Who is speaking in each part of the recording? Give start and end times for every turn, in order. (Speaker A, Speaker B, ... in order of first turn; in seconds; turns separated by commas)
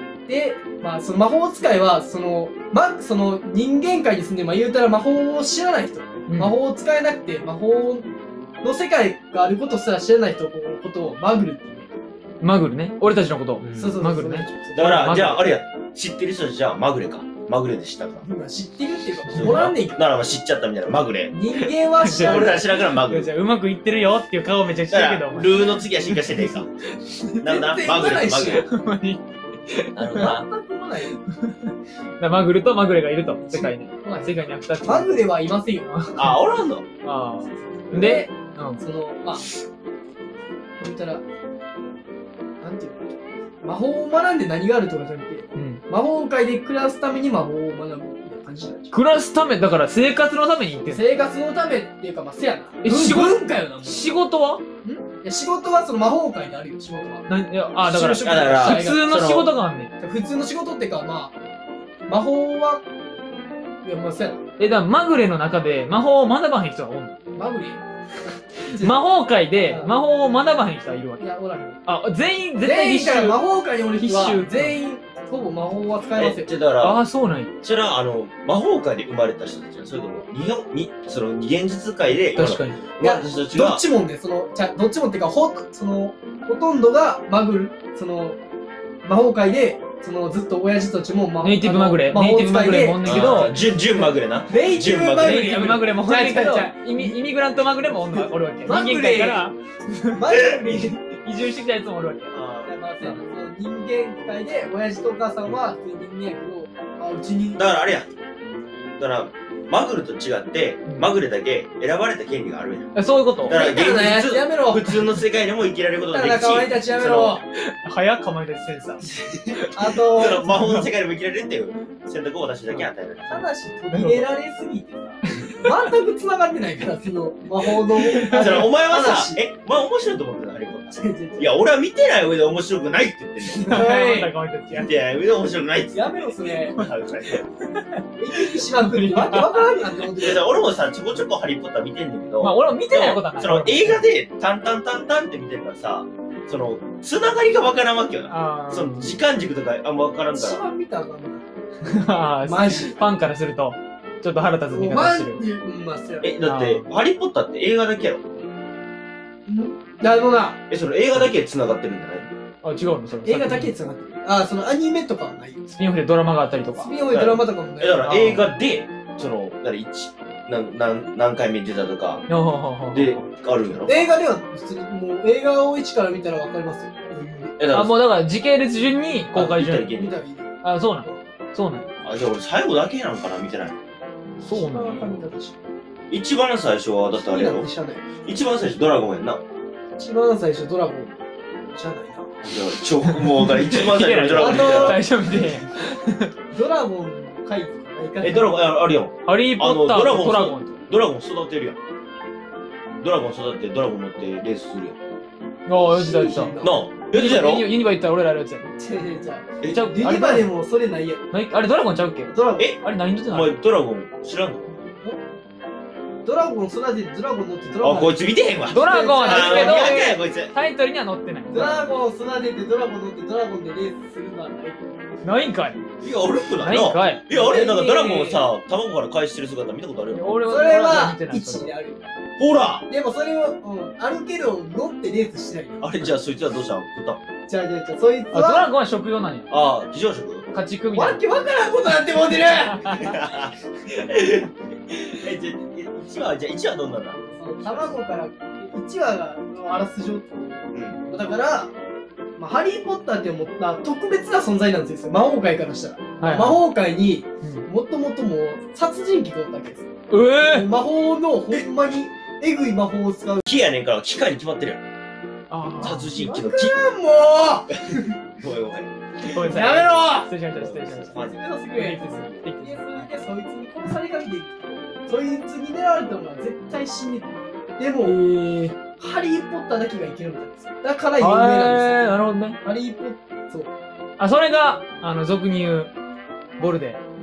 Speaker A: 0.3-8.1, Speaker B: 6.3-6.6, Speaker A: 8.6-11.9, Speaker B: 12.4-15.5, Speaker C: 13.6-14.0, Speaker A: 13.7-15.1, Speaker C: 14.7-18.3, Speaker A: 18.2-20.0, Speaker B: 19.3-19.6, Speaker C: 19.3-21.3, Speaker A: 21.3-22.6, Speaker B: 21.6-25.9, Speaker C: 22.1-23.3, Speaker C: 24.9-26.7, Speaker B: 26.5-27.5, Speaker C: 27.4-28.7, Speaker A: 27.4-28.6, Speaker B: 28.5-30.4, Speaker C: 29.9-30.4, Speaker A: 30.1-31.1, Speaker B: 31.3-35.5, Speaker A: 33.5-36.0, Speaker C: 36.2-36.8, Speaker B: 37.0-38.8, Speaker A: 37.9-39.4, Speaker A: 40.8-41.2, Speaker A: 42.6-49.0, Speaker B: 45.5-45.8, Speaker B: 48.9-51.0, Speaker A: 50.9-54.0, Speaker B: 52.8-54.6, Speaker A: 54.8-57.3, Speaker B: 57.3-59.9, Speaker A: 57.8-59.1, Speaker C: 58.2-59.5, Speaker A: 60.0-61.3, Speaker A: 62.1-62.8, Speaker A: 63.8-64.4, Speaker B: 64.6-67.2, Speaker A: 67.3-67.8, Speaker A: 68.7-69.0, Speaker B: 68.7-71.2, Speaker A: 69.5-69.9, Speaker A: 71.2-71.8, Speaker B: 71.8-73.4, Speaker A: 72.6-76.5, Speaker B: 74.0-74.7, Speaker C: 76.2-77.0, Speaker B: 76.8-77.5, Speaker C: 77.6-83.8, Speaker B: 82.3-82.8, Speaker A: 83.0-88.4, Speaker A: 89.0-93.5, Speaker B: 91.4-93.5, Speaker C: 93.0-95.5, Speaker A: 94.5-97.2, Speaker B: 95.2-102.3, Speaker A: 98.1-99.5, Speaker A: 100.1-101.0, Speaker C: 100.3-100.8, Speaker C: 102.3-102.7, Speaker A: 102.6-107.6, Speaker C: 107.5-108.1, Speaker C: 109.0-117.4, Speaker B: 112.9-113.6, Speaker A: 113.5-115.1, Speaker A: 116.0-117.4, Speaker B: 117.5-119.0, Speaker C: 119.0-123.5, Speaker A: 119.7-120.5, Speaker B: 120.5-120.9, Speaker A: 123.3-129.4, Speaker B: 123.9-124.3, Speaker B: 125.3-125.7, Speaker B: 128.0-128.6, Speaker C: 128.2-133.8, Speaker A: 130.9-131.6, Speaker A: 133.6-134.3, Speaker B: 133.7-134.9, Speaker C: 134.7-137.4, Speaker A: 135.9-136.8, Speaker B: 136.8-137.8, Speaker A: 138.1-140.5, Speaker B: 138.8-139.6, Speaker C: 140.2-150.6, Speaker B: 142.4-144.0, Speaker B: 148.3-149.2, Speaker A: 150.3-151.4, Speaker B: 151.8-155.4, Speaker A: 152.4-153.0, Speaker A: 154.7-156.3, Speaker C: 156.2-158.2, Speaker B: 156.4-156.9, Speaker A: 159.4-160.6, Speaker C: 160.7-162.3, Speaker B: 162.6-163.7, Speaker A: 163.2-165.6, Speaker B: 165.7-166.9, Speaker A: 166.7-168.1, Speaker C: 167.1-172.2, Speaker B: 168.0-168.4, Speaker B: 172.3-173.3, Speaker C: 172.9-174.1, Speaker A: 173.9-177.6, Speaker C: 177.6-178.0, Speaker B: 177.7-179.9, Speaker C: 179.3-180.2, Speaker A: 179.9-181.2, Speaker B: 180.6-181.9, Speaker C: 182.0-183.8, Speaker B: 184.4-185.2, Speaker A: 184.5-185.6, Speaker C: 186.1-187.7, Speaker A: 187.2-188.1, Speaker C: 188.2-189.4, Speaker A: 190.0-191.2, Speaker A: 191.7-192.4, Speaker C: 192.4-195.0, Speaker B: 193.0-196.3, Speaker A: 194.3-195.1, Speaker A: 196.5-198.6, Speaker C: 198.2-201.8, Speaker B: 199.2-200.8, Speaker C: 203.0-205.0, Speaker B: 205.7-206.6, Speaker A: 205.7-206.8, Speaker C: 206.6-207.7, Speaker B: 207.1-208.7, Speaker A: 208.7-211.2, Speaker C: 209.6-209.9, Speaker B: 209.7-210.5, Speaker B: 211.3-213.6, Speaker A: 212.2-212.7, Speaker C: 212.6-214.8, Speaker A: 216.2-220.0, Speaker C: 217.8-220.5, Speaker B: 218.7-221.9, Speaker A: 221.5-224.9, Speaker B: 225.2-225.8, Speaker C: 226.0-230.4, Speaker B: 226.6-227.2, Speaker A: 227.3-228.5, Speaker B: 230.1-231.7, Speaker A: 230.4-232.1, Speaker C: 232.4-232.8, Speaker A: 232.9-236.0, Speaker C: 235.8-237.2, Speaker A: 237.5-238.7, Speaker B: 238.3-239.5, Speaker C: 239.5-240.4, Speaker B: 240.5-241.2, Speaker A: 240.9-243.0, Speaker B: 242.3-243.2, Speaker C: 242.8-247.9, Speaker A: 247.2-251.7, Speaker C: 250.7-251.0, Speaker A: 252.4-263.4, Speaker B: 256.2-256.6, Speaker B: 260.1-260.7, Speaker C: 263.4-264.8, Speaker B: 265.5-266.1, Speaker C: 265.8-266.8, Speaker A: 265.8-268.1, Speaker C: 268.4-268.9, Speaker B: 269.2-271.2, Speaker A: 269.4-270.3, Speaker C: 270.5-271.4, Speaker A: 271.1-278.2, Speaker B: 271.7-273.1, Speaker B: 278.0-278.8, Speaker A: 279.0-283.7, Speaker B: 281.2-282.6, Speaker B: 284.2-285.9, Speaker B: 286.6-287.0